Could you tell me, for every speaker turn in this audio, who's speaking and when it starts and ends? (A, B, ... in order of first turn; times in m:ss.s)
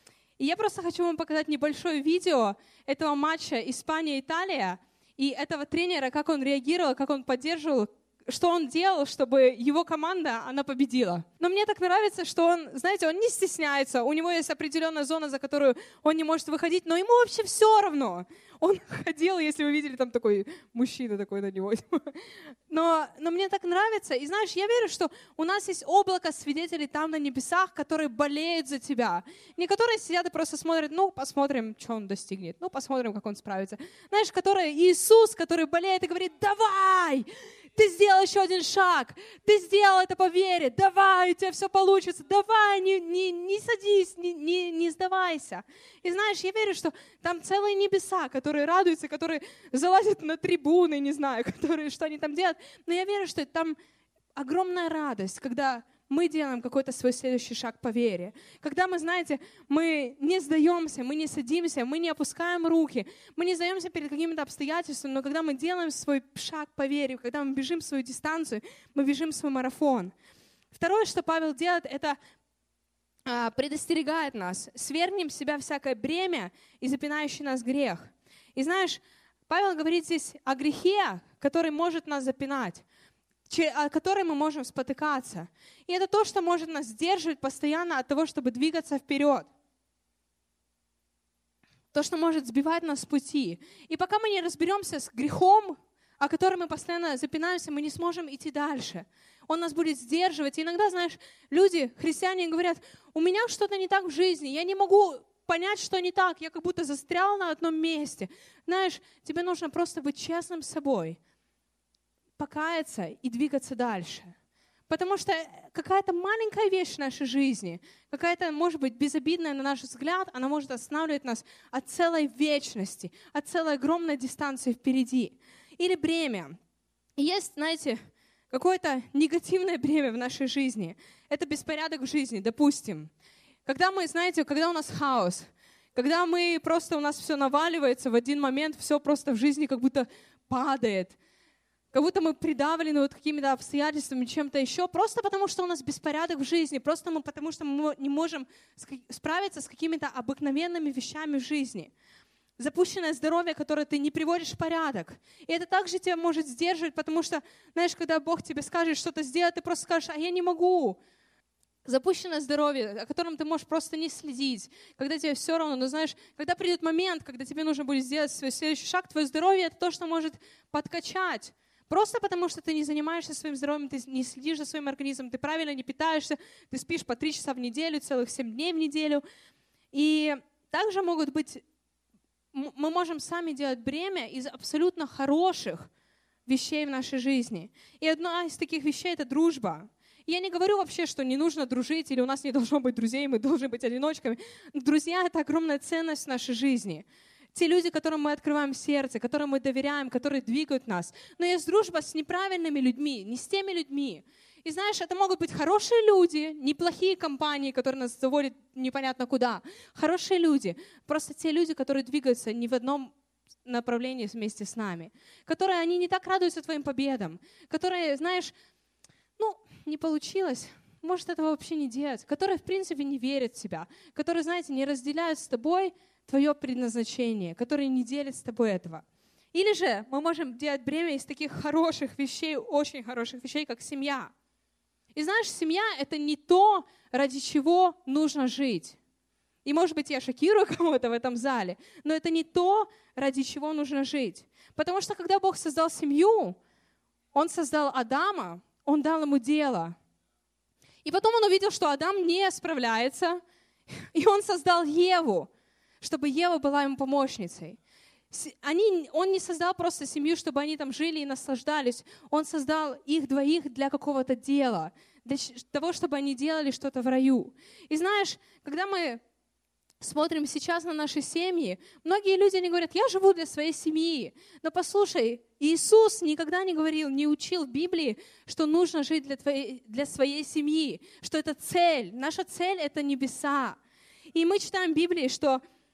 0:00.4-0:53.8 A
0:54.4-1:10.1 A
1:10.7-1:12.2 A
1:13.3-1:22.8 A
1:23.5-1:29.5 A
1:31.9-1:51.2 A
1:52.4-1:54.3 A
1:54.9-2:06.6 A
2:07.2-2:08.0 A
2:08.5-2:13.1 A
2:13.7-2:21.2 A
2:21.9-2:31.9 A
2:32.6-2:41.0 A
2:41.8-2:59.2 A
2:59.9-3:01.6 A
3:02.5-3:05.9 A
3:06.5-3:33.1 A
3:33.6-3:38.5 A
3:39.4-3:54.3 A
3:55.2-3:59.0 A
3:59.6-4:06.6 A
4:07.3-4:10.0 A
4:11.0-4:13.4 A
4:14.0-4:15.5 A
4:16.0-4:17.8 A
4:18.3-4:29.2 A
4:30.0-4:43.8 A
4:44.3-4:45.6 A